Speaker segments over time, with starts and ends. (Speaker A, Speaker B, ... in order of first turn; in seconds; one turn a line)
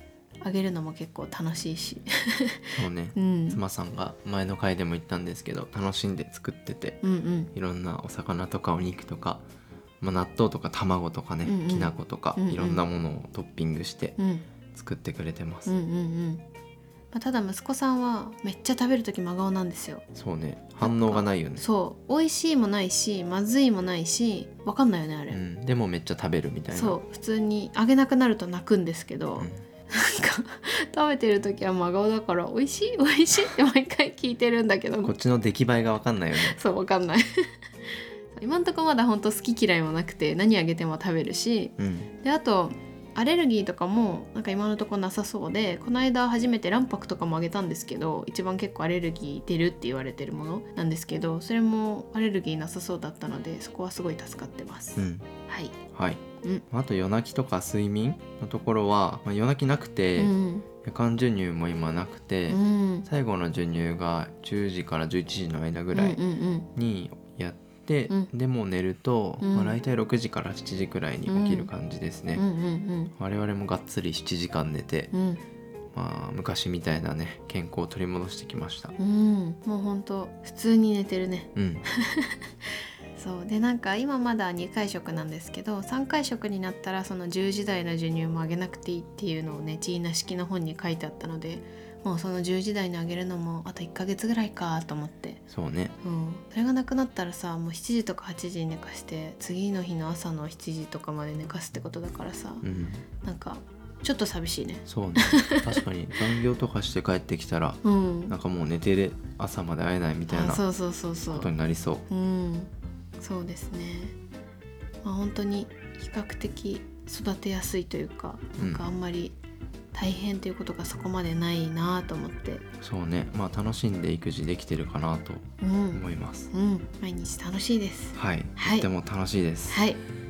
Speaker A: 0.4-2.6
Speaker B: 2.8-7.0
Speaker A: 3.1-3.6
Speaker A: 7.0-7.5
Speaker B: 7.5-9.4
Speaker B: 10.0-14.2
Speaker A: 11.4-12.8
Speaker A: 14.2-14.4
Speaker B: 14.7-15.7
Speaker A: 15.7-16.4
Speaker A: 17.1-20.0
Speaker B: 20.1-21.6
Speaker A: 20.8-25.4
Speaker B: 25.3-27.0
Speaker A: 26.7-35.1
Speaker B: 35.0-36.5
Speaker A: 36.4-37.2
Speaker A: 38.3-55.7
Speaker B: 41.8-42.1
Speaker B: 55.0-55.2
Speaker B: 55.9-66.2
Speaker A: 60.2-60.7
Speaker A: 62.5-63.1
Speaker A: 65.9-66.7
Speaker B: 66.8-72.4
Speaker A: 69.4-69.8
Speaker A: 71.3-71.7
Speaker A: 72.3-73.1
Speaker B: 73.2-75.1
Speaker A: 75.1-75.4
Speaker B: 75.9-78.9
Speaker A: 79.0-82.4
Speaker B: 81.5-81.8
Speaker A: 83.2-95.4
Speaker B: 95.5-95.9
Speaker A: 96.0-102.6
Speaker B: 102.6-103.0
Speaker A: 103.2-105.8
Speaker B: 104.8-110.6
Speaker A: 107.8-108.3
Speaker A: 110.3-111.5
Speaker B: 111.3-112.0
Speaker A: 112.1-114.2
Speaker A: 115.0-119.3
Speaker B: 118.6-118.8
Speaker A: 119.9-122.6
Speaker B: 122.8-126.5
Speaker A: 125.6-128.9
Speaker B: 128.1-129.8
Speaker A: 129.7-130.0